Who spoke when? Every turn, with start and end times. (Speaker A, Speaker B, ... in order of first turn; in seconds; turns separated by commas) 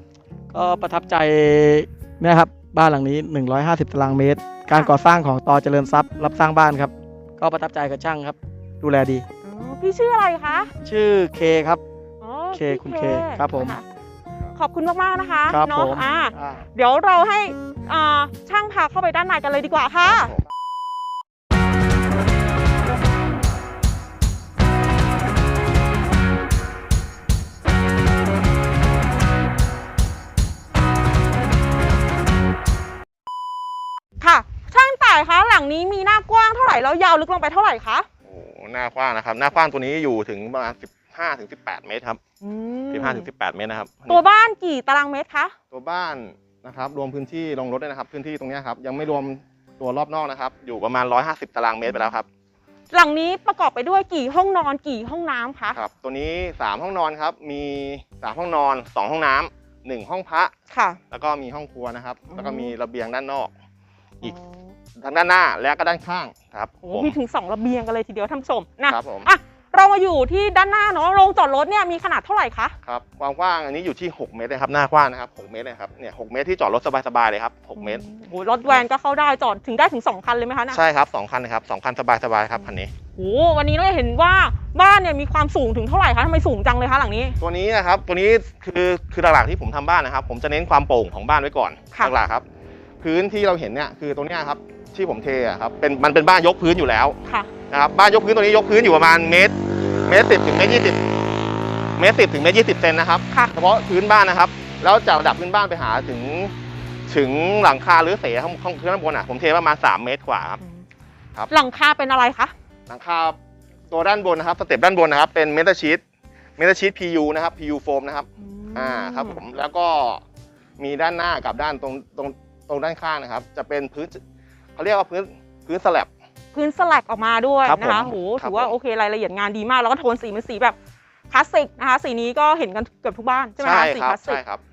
Speaker A: 0.5-9.2, Speaker B: 4.7-5.0, Speaker B: 9.4-10.7, Speaker A: 10.8-11.8, Speaker B: 12.2-13.8, Speaker A: 12.5-13.8, Speaker B: 14.5-20.4, Speaker A: 15.5-16.6, Speaker B: 34.2-38.1, Speaker C: 38.2-42.2, Speaker B: 42.4-43.3, Speaker C: 42.9-44.2, Speaker B: 44.1-45.5, Speaker C: 45.7-52.3, Speaker B: 52.9-55.8, Speaker C: 55.7-60.5, Speaker B: 60.7-61.0, Speaker C: 61.1-63.5, Speaker B: 62.3-62.7, Speaker B: 64.2-64.7, Speaker C: 65.0-67.2, Speaker B: 66.8-72.7, Speaker C: 68.9-69.3, Speaker C: 72.8-78.0, Speaker B: 77.8-80.8, Speaker C: 80.7-82.9, Speaker B: 83.1-87.4, Speaker C: 87.4-92.4, Speaker C: 93.0-97.2, Speaker C: 97.7-101.0, Speaker C: 102.0-106.5, Speaker C: 107.1-110.6, Speaker B: 111.5-112.5, Speaker C: 112.9-113.4, Speaker C: 113.9-116.0, Speaker C: 116.6-120.2, Speaker B: 118.4-119.4, Speaker C: 120.8-124.2, Speaker C: 124.8-126.1, Speaker B: 126.5-130.8, Speaker C: 127.7-128.7, Speaker B: 131.3-134.4, Speaker C: 133.6-134.6